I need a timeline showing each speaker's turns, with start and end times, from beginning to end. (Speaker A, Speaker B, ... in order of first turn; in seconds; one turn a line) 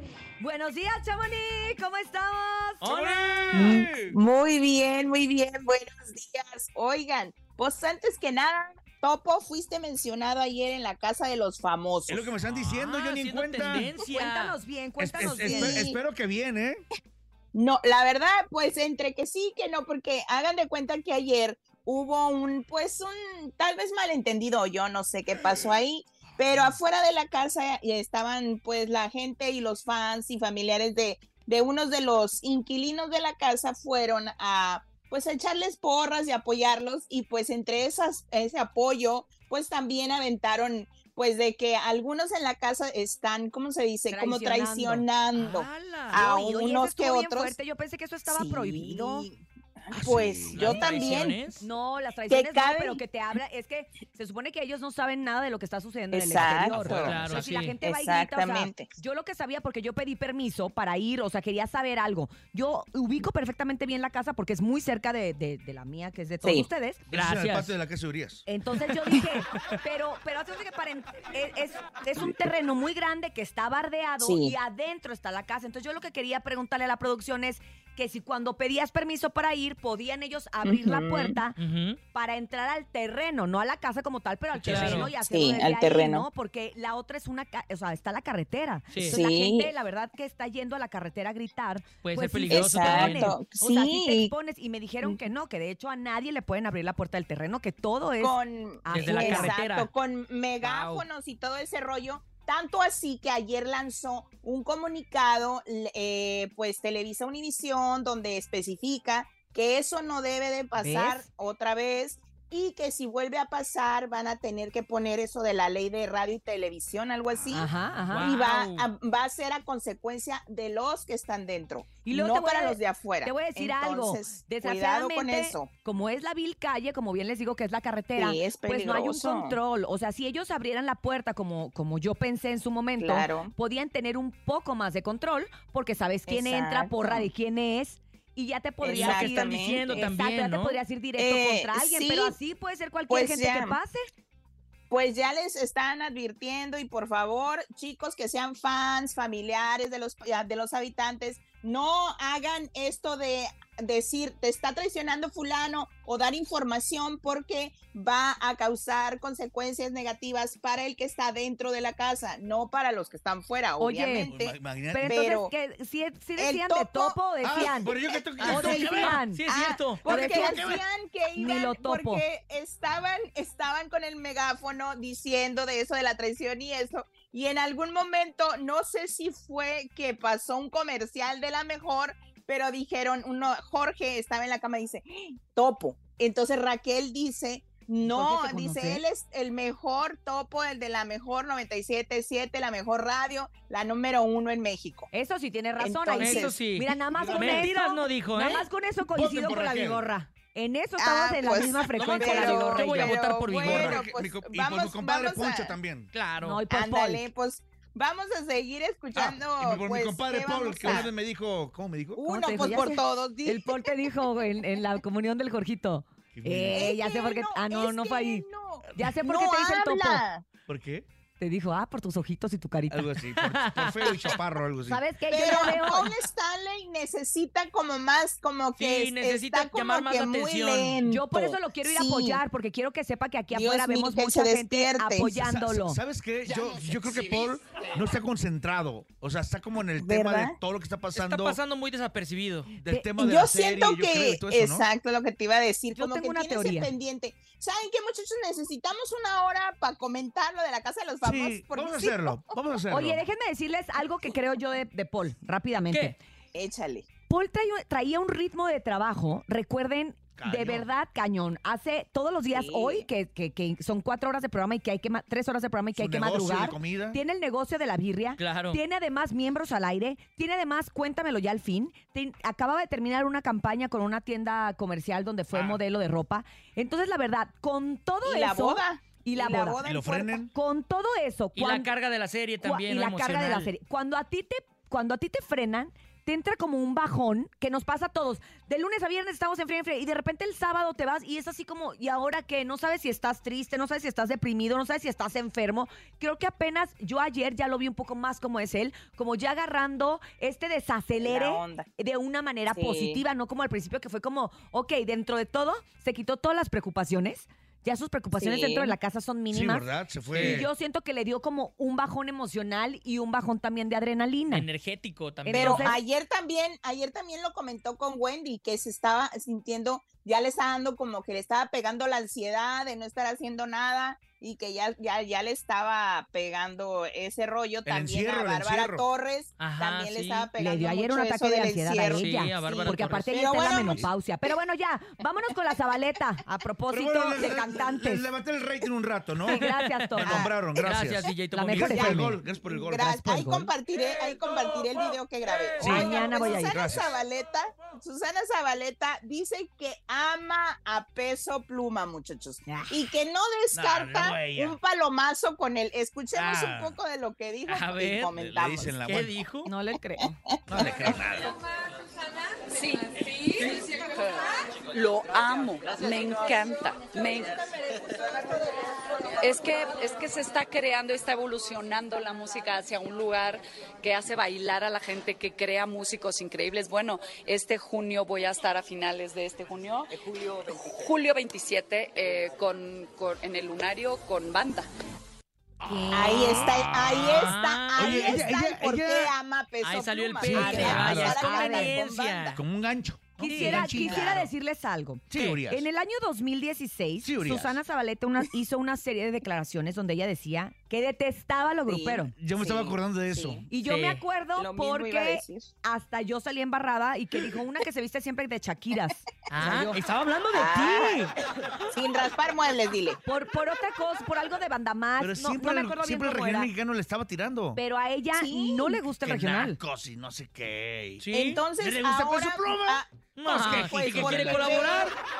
Speaker A: 0.4-2.9
Speaker B: 2.8-3.8
Speaker C: 2.9-4.2
Speaker D: 3.5-12.3
Speaker C: 12.1-13.9
Speaker B: 12.5-14.6
Speaker A: 14.1-15.9
Speaker C: 15.0-16.8
Speaker D: 15.4-16.0
Speaker D: 17.5-47.6
Speaker A: 44.1-45.0
Speaker B: 45.4-46.2
Speaker A: 46.1-49.3
Speaker D: 48.2-51.4
Speaker C: 49.9-50.9
Speaker B: 50.5-51.6
Speaker A: 51.6-67.0
Speaker D: 52.3-53.0
Speaker D: 56.1-57.2
Speaker C: 56.6-57.7
Speaker B: 56.9-57.8
Speaker D: 57.8-58.9
Speaker D: 66.4-66.7
Speaker B: 67.1-67.7
Speaker C: 67.1-68.4
Speaker A: 68.5-81.6
Speaker B: 69.1-69.3
Speaker D: 74.2-74.5
Speaker D: 80.6-81.4
Speaker B: 81.6-82.0
Speaker A: 82.1-99.6
Speaker B: 84.5-85.1
Speaker D: 84.7-86.3
Speaker B: 88.9-89.2
Speaker D: 89.0-89.7
Speaker B: 92.0-93.4
Speaker D: 92.5-94.3
Speaker D: 98.2-125.7
Speaker B: 98.9-99.9
Speaker B: 100.6-101.0
Speaker A: 110.8-111.2
Speaker A: 117.5-118.3
Speaker B: 118.1-118.9
Speaker A: 122.0-144.0
Speaker D: 128.2-129.6
Speaker D: 133.0-133.5
Speaker D: 136.3-137.3
Speaker D: 138.8-140.1
Speaker B: 138.9-140.8
Speaker D: 141.2-142.4
Speaker D: 143.1-143.8
Speaker D: 144.9-165.5
Speaker A: 163.8-164.3
Speaker C: 164.3-165.2
Speaker A: 164.9-167.9
Speaker D: 166.4-168.2
Speaker C: 167.4-169.2
Speaker B: 168.4-170.0
Speaker A: 168.4-169.4
Speaker D: 169.5-195.1
Speaker A: 170.1-170.8
Speaker C: 170.1-170.8
Speaker A: 171.4-172.2
Speaker A: 188.0-189.0
Speaker A: 195.1-203.2
Speaker D: 195.8-196.6
Speaker B: 196.2-198.7
Speaker C: 197.1-197.7
Speaker C: 199.1-200.1
Speaker D: 201.0-205.8
Speaker B: 201.9-204.1
Speaker C: 203.6-206.1
Speaker B: 206.1-206.6
Speaker A: 206.4-207.2
Speaker D: 206.7-211.1
Speaker C: 209.2-212.2
Speaker D: 212.2-213.9
Speaker A: 212.2-218.4
Speaker C: 216.3-216.9
Speaker D: 216.7-220.5
Speaker A: 219.0-220.2
Speaker C: 220.7-221.1
Speaker A: 221.4-223.1
Speaker C: 222.9-225.0
Speaker B: 223.2-224.3
Speaker A: 224.9-226.1
Speaker D: 225.3-232.4
Speaker B: 228.8-231.0
Speaker A: 231.0-236.0
Speaker D: 233.5-235.6
Speaker C: 235.5-241.6
Speaker D: 240.0-240.6
Speaker B: 241.2-242.7
Speaker C: 242.7-244.8
Speaker D: 243.2-252.3
Speaker A: 245.9-246.9
Speaker C: 251.2-253.2
Speaker A: 252.9-256.2
Speaker D: 256.5-257.1
Speaker A: 257.3-279.8
Speaker C: 260.4-260.9
Speaker D: 262.5-263.1
Speaker C: 265.9-267.2
Speaker B: 268.4-268.8
Speaker B: 275.5-275.8
Speaker D: 278.2-280.4
Speaker C: 279.8-280.5
Speaker A: 280.5-281.9
Speaker B: 281.5-283.7
Speaker A: 282.6-314.7
Speaker D: 301.2-301.9
Speaker D: 302.7-303.2
Speaker D: 308.4-309.0
Speaker C: 309.5-310.7
Speaker B: 310.3-310.6
Speaker B: 314.5-316.0
Speaker A: 315.4-316.0
Speaker D: 315.5-334.1
Speaker C: 327.9-329.1
Speaker B: 329.6-330.5
Speaker A: 330.6-338.2
Speaker B: 332.0-333.3
Speaker C: 336.9-339.6
Speaker A: 339.5-340.4
Speaker B: 339.6-342.1
Speaker C: 340.2-343.7
Speaker D: 340.2-340.5
Speaker A: 341.5-342.4
Speaker D: 341.9-358.9
Speaker C: 345.8-347.1
Speaker A: 345.8-346.8
Speaker A: 352.7-353.0
Speaker C: 353.8-354.8
Speaker C: 356.3-357.0
Speaker B: 357.7-359.7
Speaker C: 358.6-359.4
Speaker A: 359.6-360.4
Speaker C: 360.7-361.5
Speaker E: 362.7-367.7
Speaker E: 369.4-384.9
Speaker A: 385.9-386.8
Speaker D: 386.1-392.6
Speaker B: 386.4-388.5
Speaker C: 387.1-389.3
Speaker B: 389.8-392.6
Speaker C: 390.4-391.4
Speaker A: 390.6-391.9
Speaker C: 392.5-394.5
Speaker A: 393.4-402.3
Speaker B: 393.4-394.0
Speaker D: 393.6-394.4
Speaker C: 395.3-395.9
Speaker B: 395.3-395.6
Speaker C: 397.2-397.8
Speaker D: 401.9-403.6
Speaker C: 402.4-403.7
Speaker A: 403.7-409.2
Speaker B: 403.9-404.2
Speaker D: 404.6-405.7
Speaker B: 409.5-411.3
Speaker D: 409.6-410.0
Speaker D: 410.5-411.3
Speaker D: 411.9-413.2
Speaker A: 413.3-416.7
Speaker C: 415.2-417.8
Speaker A: 417.8-419.8
Speaker D: 418.3-419.1
Speaker C: 419.3-424.9
Speaker B: 419.3-419.7
Speaker B: 421.2-421.6
Speaker D: 421.3-425.2
Speaker B: 423.4-425.1